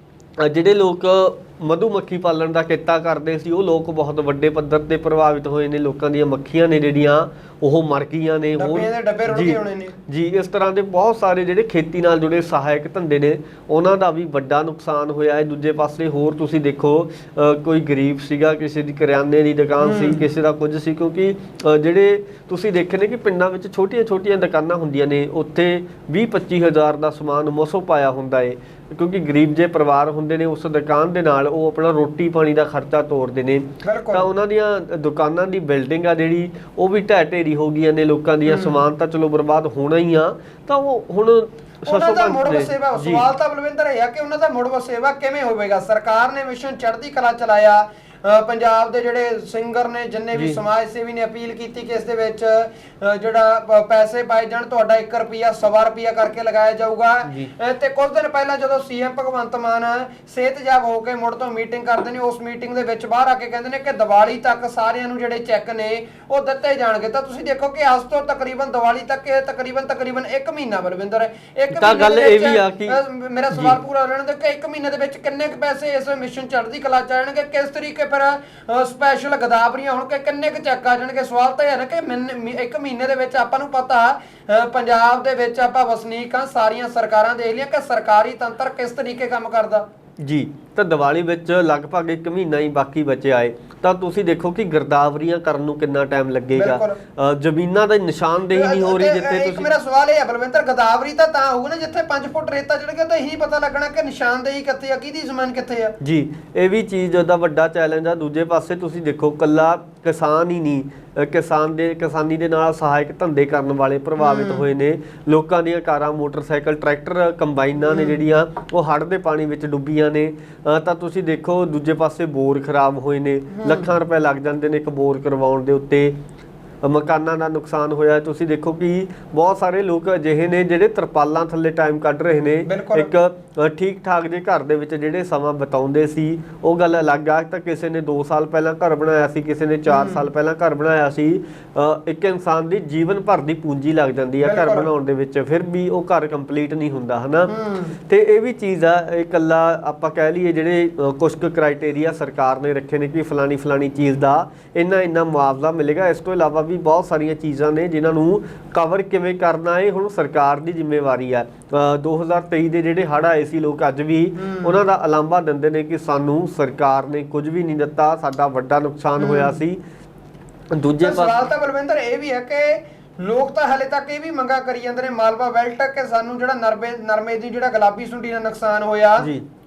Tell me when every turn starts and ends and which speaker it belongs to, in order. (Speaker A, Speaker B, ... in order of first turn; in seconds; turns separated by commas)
Speaker A: 0.4-43.3, Speaker B: 8.6-9.9, Speaker B: 19.8-20.2, Speaker B: 33.8-34.3, Speaker B: 38.5-38.8, Speaker B: 41.9-89.9, Speaker A: 50.4-50.6, Speaker A: 71.7-73.0, Speaker A: 73.5-73.8, Speaker A: 90.2-99.7, Speaker B: 96.5-97.0, Speaker B: 98.5-106.0, Speaker A: 106.0-126.2, Speaker B: 114.2-114.7, Speaker B: 117.9-118.2, Speaker B: 123.5-123.9, Speaker A: 126.8-147.5, Speaker B: 132.7-133.1, Speaker B: 139.9-140.3, Speaker B: 144.4-144.9, Speaker B: 147.5-148.0, Speaker A: 148.1-169.8, Speaker B: 164.4-164.8, Speaker B: 169.2-169.6, Speaker A: 170.7-171.3, Speaker B: 171.0-179.3